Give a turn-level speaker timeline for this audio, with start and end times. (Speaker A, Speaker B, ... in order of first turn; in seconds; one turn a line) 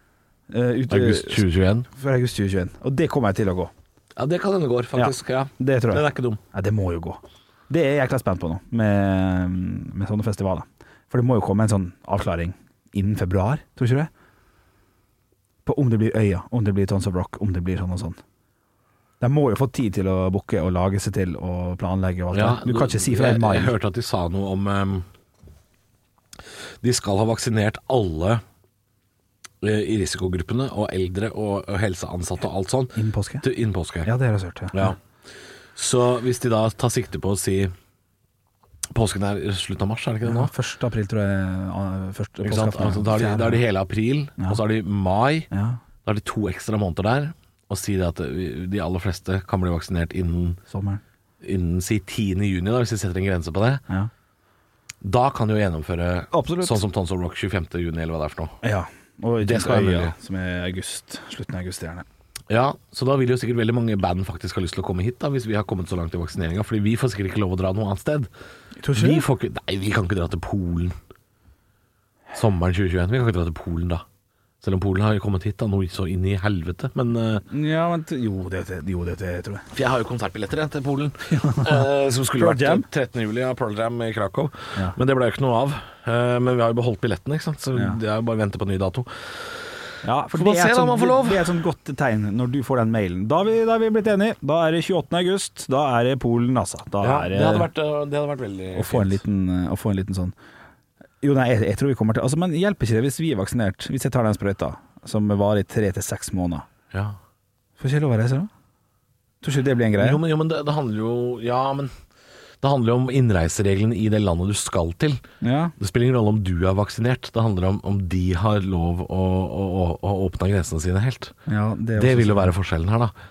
Speaker A: 0.5-3.7
Speaker B: 0.9-1.9
Speaker B: 4.2-6.4
Speaker A: 4.9-14.1
Speaker A: 15.6-18.2
Speaker A: 19.2-23.8
Speaker B: 22.3-25.1
Speaker B: 26.8-28.4
Speaker B: 29.6-34.1
Speaker A: 32.9-33.4
Speaker A: 34.0-34.9
Speaker B: 34.7-35.0
Speaker B: 35.7-37.7
Speaker B: 38.9-40.5
Speaker A: 40.2-43.6
Speaker B: 42.4-45.5
Speaker A: 45.5-45.8
Speaker B: 46.0-50.6
Speaker A: 50.7-51.0
Speaker B: 51.4-53.8
Speaker B: 55.0-58.6
Speaker A: 56.3-56.8
Speaker A: 58.6-62.0
Speaker B: 59.4-60.1
Speaker B: 62.5-68.3
Speaker A: 68.8-69.2
Speaker B: 68.9-71.0
Speaker B: 72.3-74.0
Speaker B: 74.6-77.4
Speaker A: 77.5-79.7
Speaker B: 79.7-89.7
Speaker A: 81.3-82.8
Speaker A: 90.0-97.7
Speaker B: 90.3-91.6
Speaker B: 97.0-99.2
Speaker A: 98.7-100.3
Speaker A: 101.2-106.7
Speaker B: 106.9-107.2
Speaker A: 107.8-108.5
Speaker A: 109.4-110.2
Speaker B: 110.0-111.9
Speaker B: 112.6-115.2
Speaker A: 115.4-115.7
Speaker B: 115.8-121.3
Speaker A: 121.5-122.5
Speaker B: 122.0-123.1